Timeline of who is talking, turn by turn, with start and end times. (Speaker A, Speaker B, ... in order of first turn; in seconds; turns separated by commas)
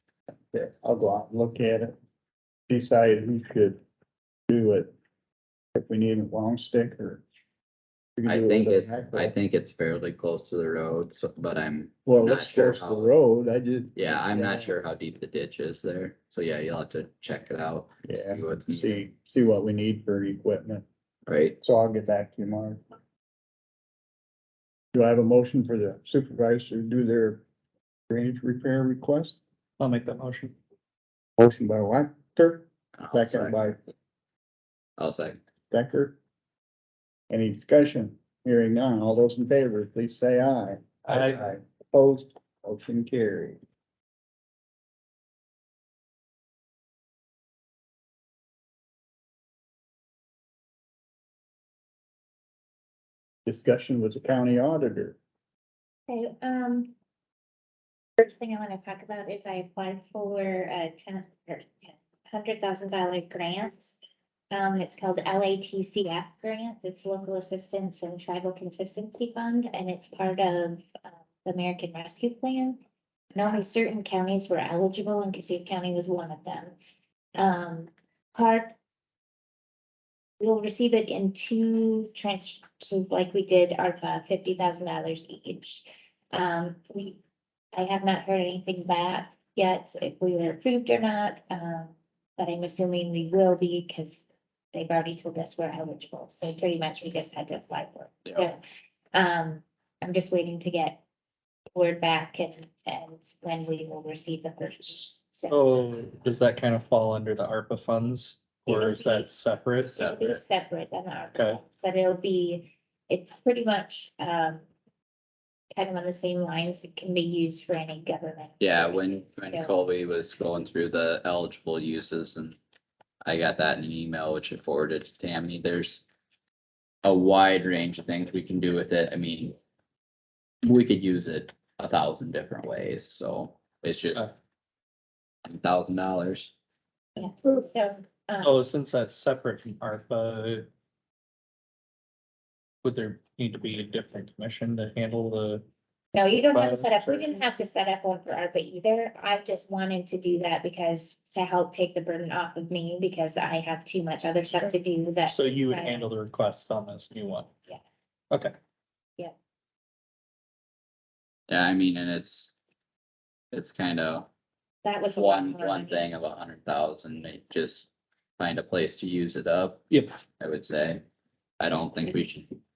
Speaker A: 0.5-1.9, Speaker A: 2.7-3.8, Speaker A: 4.5-4.9, Speaker A: 5.8-7.2, Speaker A: 8.2-9.3, Speaker B: 8.3-13.1, Speaker A: 12.1-14.7, Speaker B: 14.0-19.0, Speaker A: 18.1-20.9, Speaker B: 21.3-21.6, Speaker A: 21.6-22.8, Speaker A: 24.9-27.4, Speaker A: 28.1-29.4, Speaker C: 29.8-30.5, Speaker A: 31.4-33.8, Speaker B: 33.0-33.6, Speaker B: 35.0-35.4, Speaker A: 35.7-36.2, Speaker A: 37.3-43.6, Speaker C: 41.0-41.4, Speaker A: 53.5-55.2, Speaker D: 56.1-57.0, Speaker D: 58.2-64.0, Speaker D: 64.5-72.8, Speaker D: 73.3-76.7, Speaker D: 77.4-78.7, Speaker D: 80.4-87.2, Speaker D: 87.7-98.6, Speaker D: 99.1-101.0, Speaker D: 101.7-105.6, Speaker C: 105.5-109.9, Speaker D: 108.7-109.3, Speaker D: 109.8-114.7, Speaker B: 110.0-110.4, Speaker C: 111.3-111.6, Speaker D: 115.7-119.8, Speaker B: 118.6-122.6, Speaker B: 123.2-126.0, Speaker B: 127.0-129.6, Speaker B: 130.6-134.3, Speaker B: 135.4-136.5, Speaker D: 137.2-138.6, Speaker C: 138.4-140.7, Speaker C: 142.8-145.6, Speaker D: 146.1-156.1, Speaker C: 146.5-147.4, Speaker C: 155.3-157.5, Speaker B: 161.5-162.5, Speaker B: 163.5-164.3, Speaker D: 164.8-166.1, Speaker B: 165.1-171.0, Speaker B: 171.6-172.6